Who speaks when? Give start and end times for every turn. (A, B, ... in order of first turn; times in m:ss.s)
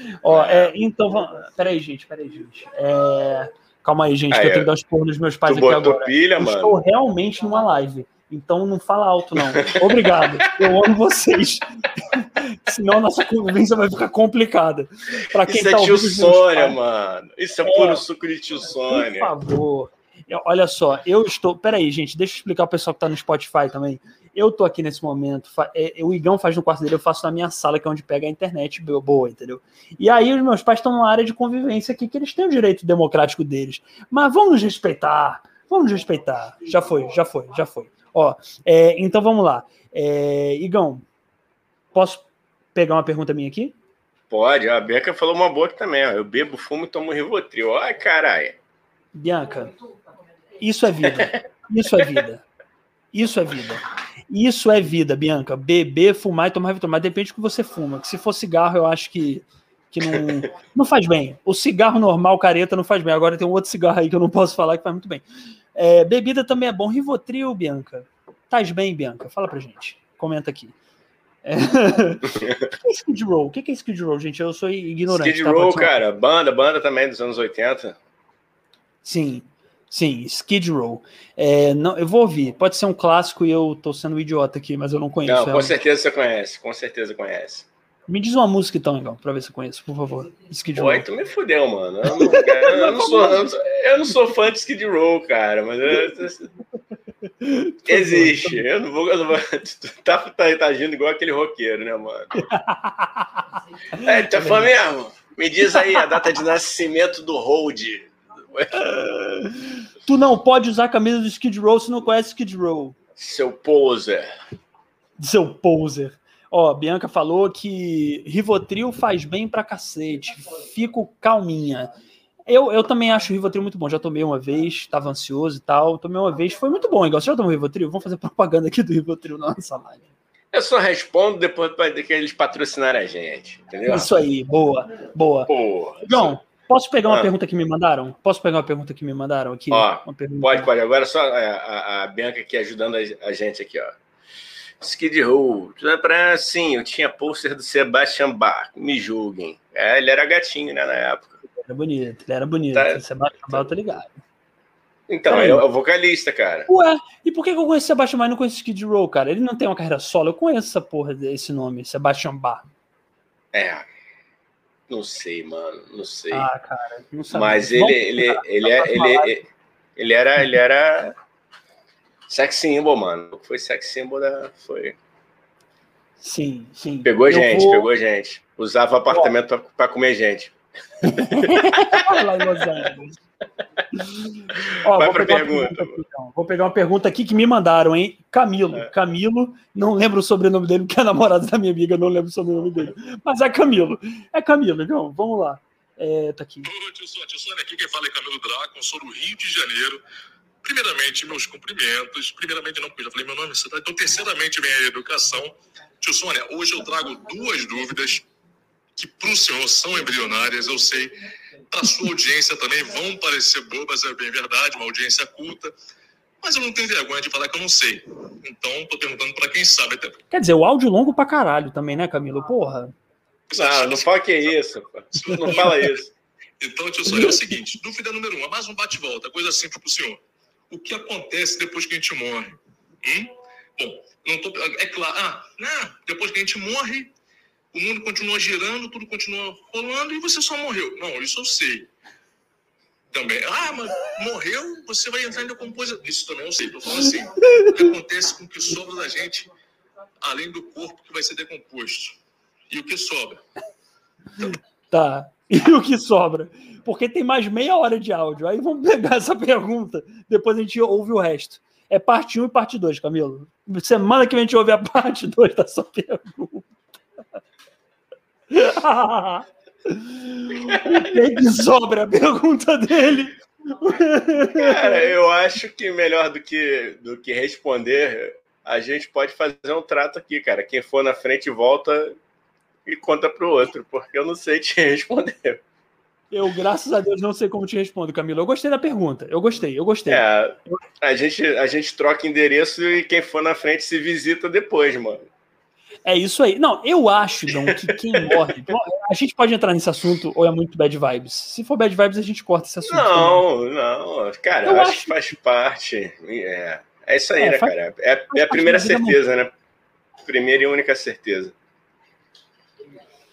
0:00.2-0:16.8 A
0:00.2-0:00.7 B
0:04.3-0:04.7 B
0:05.4-0:06.8 B
0:09.5-0:10.5 B
0:15.4-0:19.3 B
0:17.6-0:18.0 A
0:18.9-0:41.0 A
0:41.9-0:43.7 A
0:44.3-0:48.6 B
0:49.1-0:49.7 A
0:50.6-0:52.4 A
0:51.0-0:51.4 B
0:53.1-1:05.2 A
1:05.7-1:10.7 A
1:11.4-1:15.9 A
1:15.1-1:18.0 B
1:19.0-1:25.8 A
1:25.2-1:27.7 B
1:28.1-1:31.0 A
1:30.7-1:36.5 B
1:32.1-1:33.4 A
1:37.4-1:38.6 A
1:37.8-1:42.4 B
1:42.4-1:43.4 A
1:44.0-1:48.9 B
1:44.0-1:44.7 A
1:45.7-1:46.0 A
1:48.8-1:52.9 A
1:53.2-1:54.3 B
1:55.2-2:01.9 A
2:02.5-2:10.0 A
2:10.5-2:14.1 B
2:13.9-2:15.5 A
2:15.5-2:16.4 B
2:16.0-2:20.7 A
2:19.7-2:24.0 B
2:24.8-2:31.4 B
2:31.6-2:34.2 A
2:32.7-2:33.7 B
2:35.1-2:36.7 B
2:35.3-2:35.6 A
2:36.7-2:42.7 A
2:43.5-2:43.8 B
2:44.9-2:46.5 B
2:46.3-2:49.4 A
2:47.3-2:49.4 B
2:50.0-2:51.2 B
2:52.3-2:55.0 B
2:56.2-2:57.9 A
2:57.0-3:00.5 B
3:01.0-3:03.2 A
3:01.2-3:02.2 B
3:03.9-3:16.7 A
3:04.5-3:06.0 B
3:16.6-3:20.0 C
3:20.6-3:28.3 C
3:29.0-3:31.1 C
3:31.7-3:35.7 C
3:36.4-3:40.2 C
3:40.3-3:42.9 A
3:43.5-3:44.1 C
3:43.5-3:46.1 B
3:45.2-3:45.9 C
3:46.6-3:57.1 C
3:57.7-4:01.9 C
4:03.1-4:09.5 C
4:10.2-4:12.2 C
4:12.7-4:13.4 C
4:14.9-4:26.8 A
4:28.5-4:35.1 A
4:30.6-4:31.4 B
4:34.5-4:42.2 B
4:42.8-4:45.6 B
4:46.3-4:50.7 A
4:50.1-4:55.3 B
4:56.0-5:03.4 A
4:57.5-4:58.5 B
5:02.8-5:09.5 B
5:04.6-5:05.1 A
5:07.4-5:07.7 A
5:08.3-5:09.2 A
5:10.2-5:11.5 B